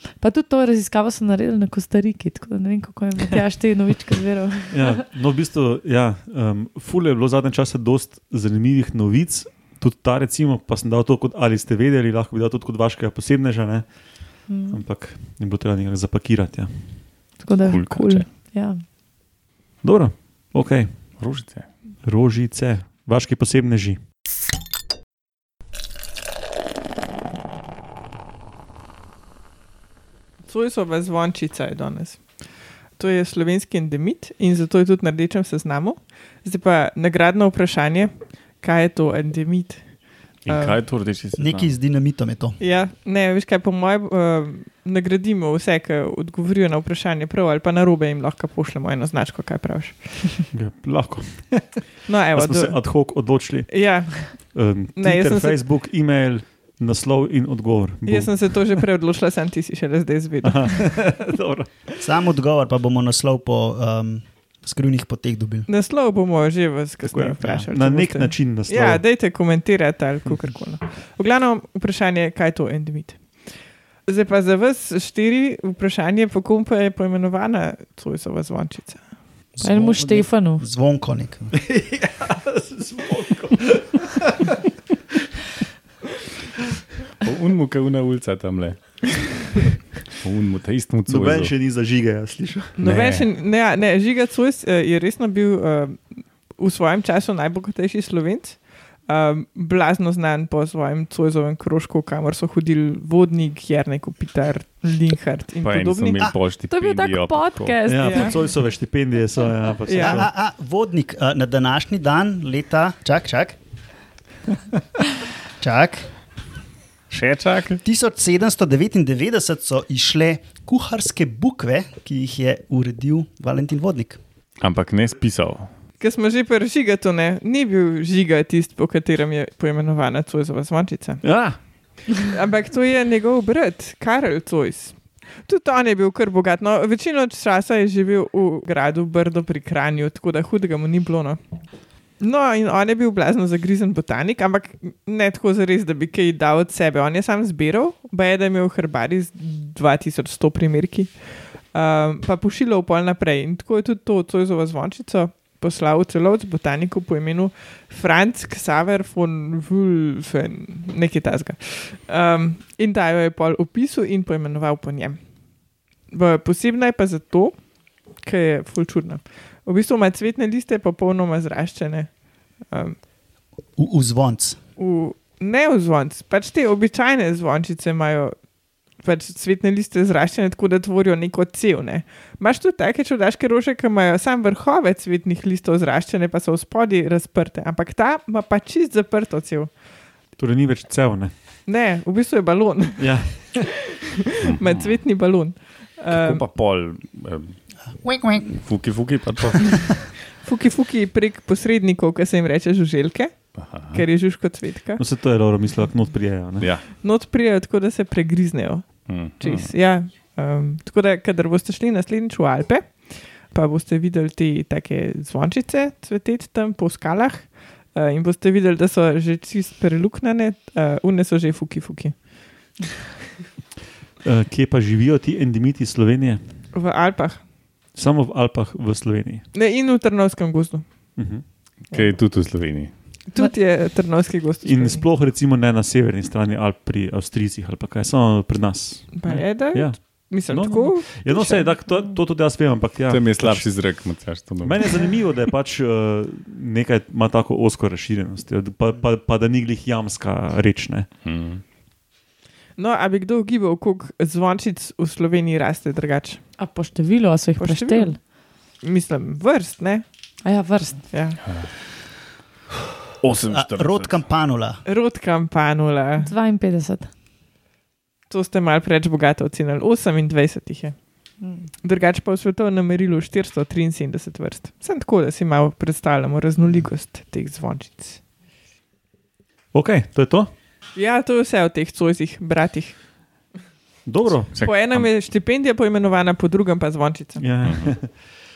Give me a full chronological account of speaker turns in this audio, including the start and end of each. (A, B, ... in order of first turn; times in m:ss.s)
0:00.2-0:05.0 A
0:04.7-0:17.1 B
0:14.5-0:14.8 A
0:17.4-0:18.8 A
0:17.6-0:18.3 C
0:19.8-0:21.2 B
0:21.2-0:21.7 C
0:22.0-0:24.0 B
0:30.4-0:40.8 D
0:40.4-0:41.7 C
0:41.4-0:42.6 E
0:42.6-0:50.5 D
0:50.5-0:58.8 B
0:52.0-0:55.6 D
0:58.0-1:01.1 D
1:00.4-1:01.9 B
1:02.0-1:05.7 E
1:05.7-1:19.2 D
1:07.0-1:09.0 B
1:07.4-1:07.7 E
1:19.5-1:21.5 E
1:19.6-1:20.6 A
1:21.6-1:24.3 B
1:27.2-1:29.4 C
1:30.2-1:31.5 C
1:31.1-1:32.8 B
1:32.8-1:46.5 D
1:32.8-1:33.3 C
1:45.6-1:47.8 C
1:46.7-1:48.4 A
1:47.9-1:50.3 B
1:48.0-1:48.4 D
1:49.8-1:50.2 D
1:50.0-1:53.6 E
1:55.6-1:56.1 E
1:57.1-1:57.8 C
1:57.8-2:04.2 E
2:04.6-2:05.8 C
2:06.0-2:45.4 D
2:11.2-2:12.2 B
2:46.0-2:53.0 D
2:53.8-2:54.6 E
2:54.8-3:09.8 D
3:10.4-3:11.4 B
3:11.6-3:16.4 D
3:13.0-3:13.6 B
3:14.5-3:15.0 C
3:16.1-3:20.0 C
3:18.0-3:18.8 E
3:20.4-3:25.0 D
3:23.5-3:24.0 C
3:25.0-3:26.7 B
3:26.6-3:26.8 C
3:26.8-3:42.3 D
3:29.1-3:29.7 C
3:44.2-3:46.6 B
3:46.7-3:47.4 D
3:47.9-3:49.4 B
3:49.5-3:50.8 D
3:51.2-3:52.0 B
3:51.9-3:52.9 C
3:53.3-3:55.0 D
3:54.6-4:11.1 B
3:59.1-4:01.8 D
4:03.1-4:05.1 C
4:11.2-4:11.6 C
4:12.8-4:16.4 D
4:16.6-4:18.2 A
4:17.6-4:20.0 D
4:20.4-4:21.1 A
4:21.1-4:21.4 D
4:21.4-4:21.7 C
4:23.2-4:24.2 C
4:23.5-4:24.8 E
4:24.8-4:26.3 D
4:26.2-4:27.1 A
4:28.3-4:38.2 D
4:31.4-4:31.7 A
4:39.7-4:40.5 B
4:40.9-4:43.0 D
4:44.0-4:44.6 B
4:44.5-4:45.1 C
4:44.5-4:47.4 D
4:47.4-4:48.1 B
4:47.6-4:47.9 C